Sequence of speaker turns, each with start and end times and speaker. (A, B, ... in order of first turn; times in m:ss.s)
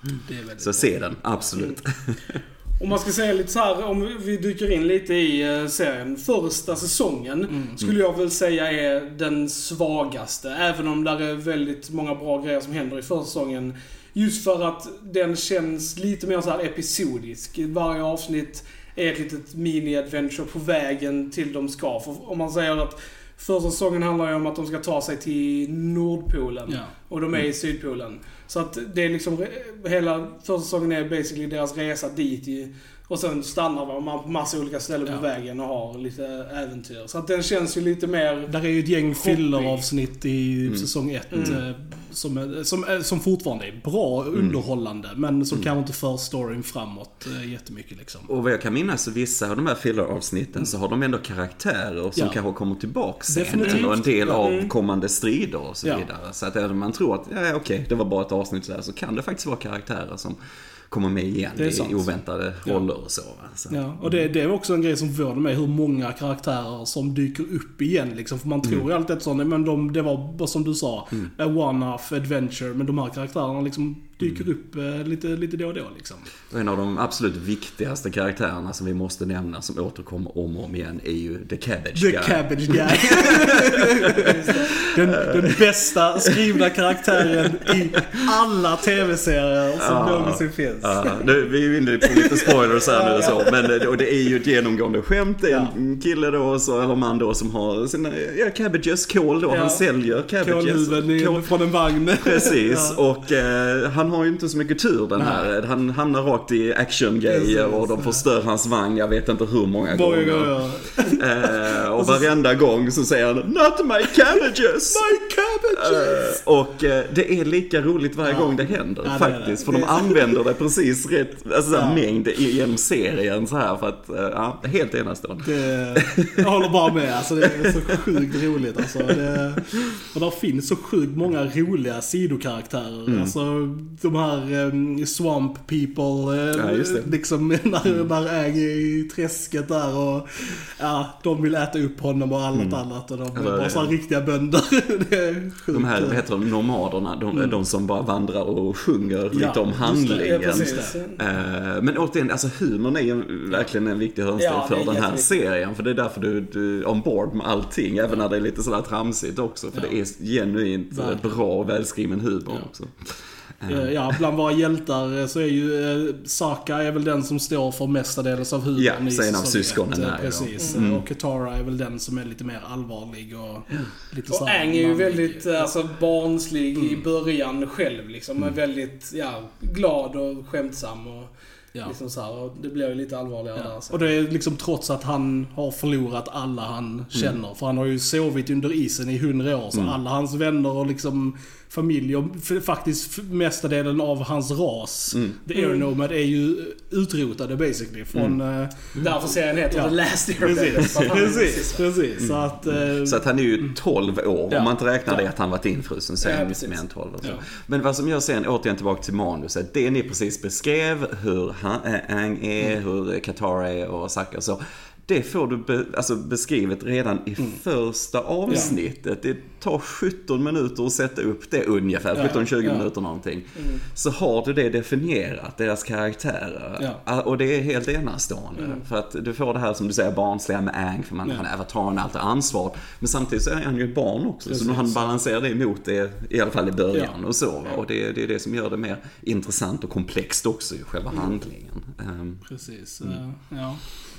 0:00.2-0:01.0 A
0:00.6-0:02.4 B
0:02.8-0:38.5 C
0:07.5-0:07.8 A
0:26.7-0:26.9 A
0:38.5-0:48.3 A
0:39.1-0:39.8 C
0:40.6-0:41.6 B
0:41.3-0:41.6 C
0:48.3-1:00.4 B
0:53.3-0:54.4 A
0:53.6-0:54.7 C
1:00.9-1:04.2 B
1:01.6-1:02.1 A
1:03.7-1:16.3 A
1:16.5-1:25.6 B
1:22.0-1:31.2 A
1:24.2-1:24.7 C
1:26.3-1:26.7 B
1:27.3-1:27.7 B
1:29.8-1:41.5 B
1:32.1-1:33.5 A
1:39.5-1:39.8 C
1:40.4-1:43.0 A
1:42.2-1:55.0 B
1:45.2-1:45.5 A
1:47.3-1:48.2 A
1:49.9-1:52.3 A
1:54.9-1:56.4 A
1:55.7-2:06.3 B
1:58.2-2:00.4 A
2:01.7-2:02.0 A
2:05.4-2:26.2 A
2:07.6-2:08.2 B
2:13.1-2:13.3 B
2:16.5-2:17.1 B
2:22.5-2:22.8 B
2:23.3-2:23.9 B
2:25.7-2:43.9 B
2:29.3-2:30.9 A
2:30.1-2:31.2 C
2:34.4-2:35.4 C
2:40.9-2:41.4 A
2:43.7-2:55.7 A
2:48.7-2:51.0 B
2:54.3-3:01.3 C
2:56.7-2:57.0 A
3:01.8-3:04.1 C
3:03.6-3:19.0 A
3:15.5-3:15.8 C
3:19.0-3:21.8 C
3:19.7-3:23.7 A
3:22.2-4:02.4 B
3:24.5-3:25.2 A
3:26.2-3:26.8 C
3:42.1-3:42.8 A
3:54.5-3:55.1 A
4:02.4-4:03.8 A